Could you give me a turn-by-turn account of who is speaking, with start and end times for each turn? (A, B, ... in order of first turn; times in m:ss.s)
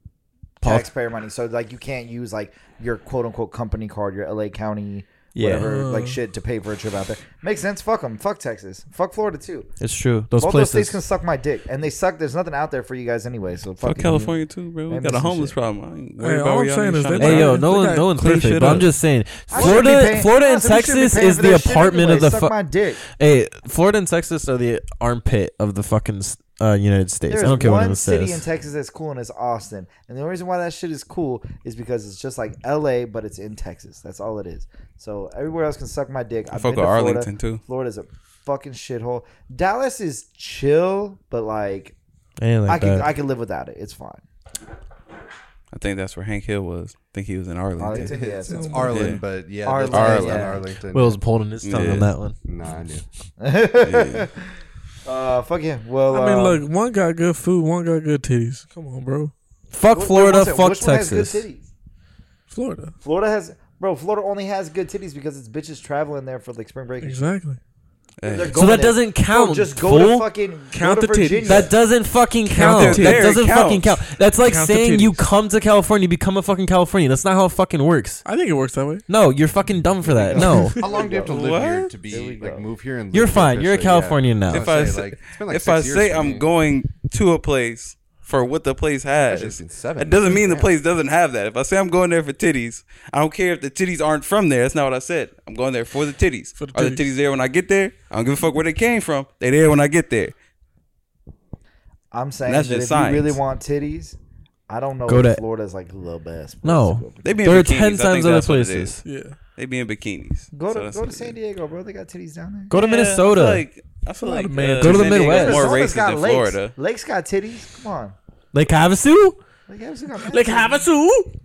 0:00.6-0:00.9 A
0:00.6-0:09.7 B
0:05.3-0:05.7 A
0:05.6-0:06.2 C
0:09.8-0:11.0 A
0:10.4-0:14.4 B
0:13.8-0:18.9 D
0:14.9-0:15.5 B
0:16.2-0:18.8 C
0:17.1-0:28.4 A
0:19.5-0:23.0 B
0:19.5-0:19.8 D
0:27.3-0:41.9 B
0:36.5-0:37.6 D
0:42.4-0:43.1 A
0:42.6-0:44.2 B
0:45.7-0:48.1 D
0:47.8-0:48.9 B
0:47.9-0:51.2 E
0:48.5-0:49.0 C
0:48.9-0:49.2 D
0:49.6-0:50.7 B
0:49.9-0:50.6 D
0:50.9-0:52.4 A
0:51.6-0:52.1 D
0:52.4-0:53.0 E
0:53.4-0:54.4 B
0:53.8-0:54.3 D
0:55.0-0:56.6 B
0:56.1-0:59.3 C
0:59.7-1:01.4 A
0:59.9-1:01.6 B
1:02.5-1:02.9 C
1:03.0-1:07.2 B
1:07.0-1:07.6 C
1:08.2-1:08.6 D
1:08.3-1:11.7 B
1:08.4-1:10.3 A
1:10.7-1:11.7 C
1:11.4-1:18.2 A
1:12.4-1:13.4 C
1:12.6-1:14.0 D
1:14.4-1:15.3 C
1:18.2-1:19.0 C
1:19.1-1:20.8 A
1:20.0-1:26.5 E
1:20.8-1:21.4 B
1:21.2-1:21.9 D
1:22.0-1:22.7 B
1:23.1-1:24.7 A
1:24.5-1:40.3 D
1:29.2-1:30.7 E
1:36.6-1:37.1 C
1:42.1-1:44.2 B
1:42.4-1:43.4 D
1:44.7-1:47.6 B
1:45.1-1:45.4 A
1:46.6-1:49.0 A
1:47.2-1:49.0 D
1:49.0-1:49.4 C
1:49.6-1:51.4 D
1:50.5-1:52.7 B
1:52.7-1:53.6 A
1:52.7-1:56.7 D
1:54.1-1:55.6 C
1:54.8-1:55.7 A
1:55.3-1:58.2 B
1:58.5-1:59.4 A
1:59.7-2:00.8 B
2:00.3-2:01.3 C